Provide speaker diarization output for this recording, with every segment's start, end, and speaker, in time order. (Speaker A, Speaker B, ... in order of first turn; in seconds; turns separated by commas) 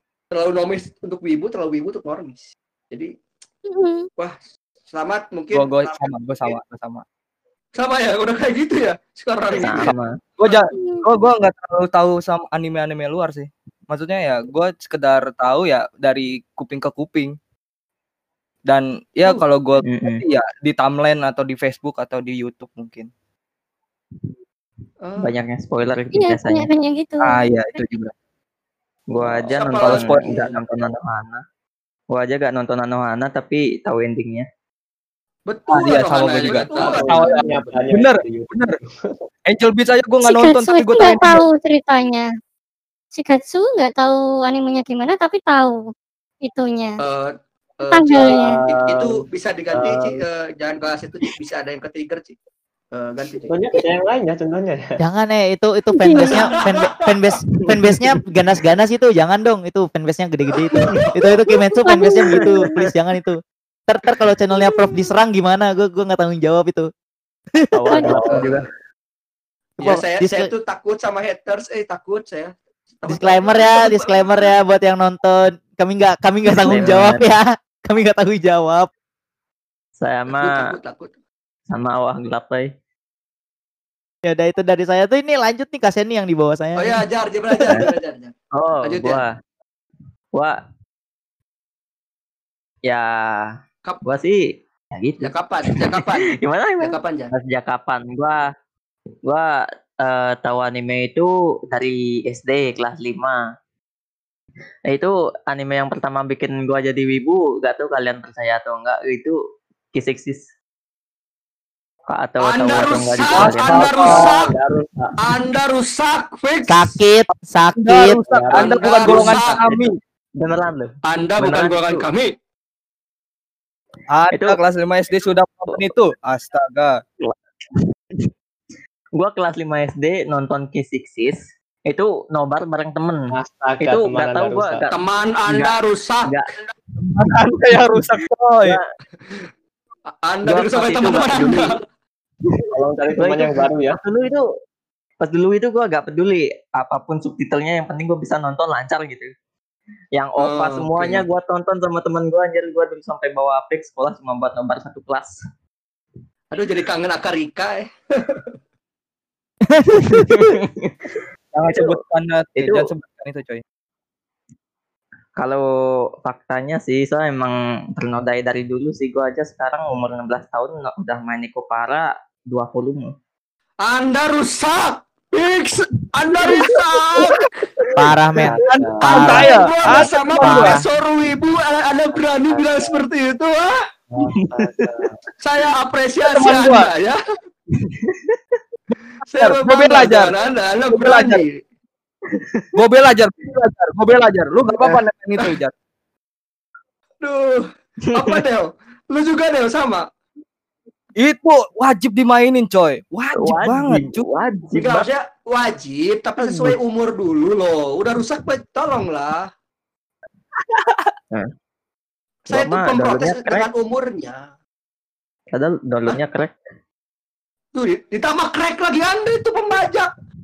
Speaker A: 0.3-3.1, Speaker B: 3.7-4.1, Speaker A: 4.9-6.5, Speaker C: 5.5-7.0, Speaker A: 7.8-9.9, Speaker C: 9.6-17.4, Speaker D: 9.6-10.2, Speaker B: 10.8-11.1, Speaker C: 18.6-23.1, Speaker D: 19.8-20.2, Speaker A: 25.0-25.4, Speaker D: 25.2-26.7, Speaker B: 26.1-27.9, Speaker C: 27.2-28.1, Speaker D: 29.1-31.4, Speaker A: 29.5-30.6, Speaker C: 29.8-30.4, Speaker D: 32.1-34.5, Speaker A: 35.5-37.3, Speaker C: 35.7-38.8, Speaker E: 36.7-38.9, Speaker C: 39.5-41.4, Speaker B: 40.2-42.3, Speaker B: 43.1-45.9, Speaker B: 46.4-47.0, Speaker A: 47.0-52.4, Speaker B: 47.9-48.6, Speaker E: 48.2-49.1, Speaker E: 49.7-50.2, Speaker A: 52.9-53.5, Speaker E: 53.4-54.8, Speaker F: 55.0-66.9, Speaker B: 56.0-56.4, Speaker A: 56.3-56.9, Speaker D: 57.5-58.1, Speaker B: 61.7-62.7, Speaker D: 62.4-62.8, Speaker F: 67.6-68.2, Speaker D: 67.7-68.7, Speaker A: 68.3-68.7, Speaker A: 69.8-74.5, Speaker F: 69.8-70.5, Speaker F: 73.1-78.9, Speaker D: 76.6-77.2, Speaker D: 80.0-80.7, Speaker A: 80.3-81.2, Speaker D: 81.7-82.7, Speaker F: 84.2-87.0, Speaker A: 86.8-88.3, Speaker D: 88.5-89.3, Speaker A: 88.8-89.2, Speaker D: 90.3-90.6, Speaker D: 92.8-98.4, Speaker A: 95.2-97.3, Speaker D: 100.0-103.4, Speaker D: 104.9-109.4, Speaker D: 109.9-110.5, Speaker D: 112.1-115.4, Speaker A: 112.4-114.5, Speaker C: 113.3-114.4, Speaker A: 115.2-117.0, Speaker F: 116.7-118.2, Speaker C: 117.8-120.0, Speaker D: 118.3-119.9, Speaker A: 118.5-119.6, Speaker D: 120.4-122.0, Speaker A: 121.0-122.3, Speaker C: 124.1-127.0, Speaker D: 124.3-124.6, Speaker D: 127.2-127.8, Speaker D: 129.2-136.5, Speaker E: 133.3-134.9, Speaker A: 134.9-136.3, Speaker C: 137.0-138.8, Speaker D: 137.3-138.9, Speaker A: 140.2-141.8, Speaker D: 140.4-141.8, Speaker D: 142.6-144.5, Speaker E: 142.7-144.0, Speaker D: 145.2-149.3, Speaker D: 150.1-155.4, Speaker A: 150.4-151.2, Speaker A: 156.5-158.5, Speaker F: 159.7-160.5, Speaker D: 160.2-162.0, Speaker C: 161.5-163.6, Speaker D: 162.6-162.9, Speaker D: 165.3-173.1, Speaker A: 173.8-177.6, Speaker D: 176.4-179.6, Speaker F: 177.9-180.8, Speaker E: 178.5-179.0, Speaker C: 178.6-180.8, Speaker A: 179.0-183.7, Speaker D: 182.3-182.9, Speaker E: 184.1-185.2, Speaker D: 184.3-185.3, Speaker A: 185.4-187.2, Speaker C: 186.2-186.9, Speaker D: 187.8-188.6, Speaker A: 189.2-191.5, Speaker C: 189.3-190.3, Speaker C: 190.9-191.4, Speaker D: 192.3-192.7, Speaker C: 192.7-195.7, Speaker A: 197.2-200.1, Speaker D: 198.1-198.4, Speaker C: 201.2-204.3, Speaker D: 203.3-205.1, Speaker A: 204.7-209.5, Speaker D: 206.4-206.7, Speaker A: 212.5-214.5, Speaker D: 212.5-213.7, Speaker D: 215.5-216.5, Speaker A: 217.7-220.1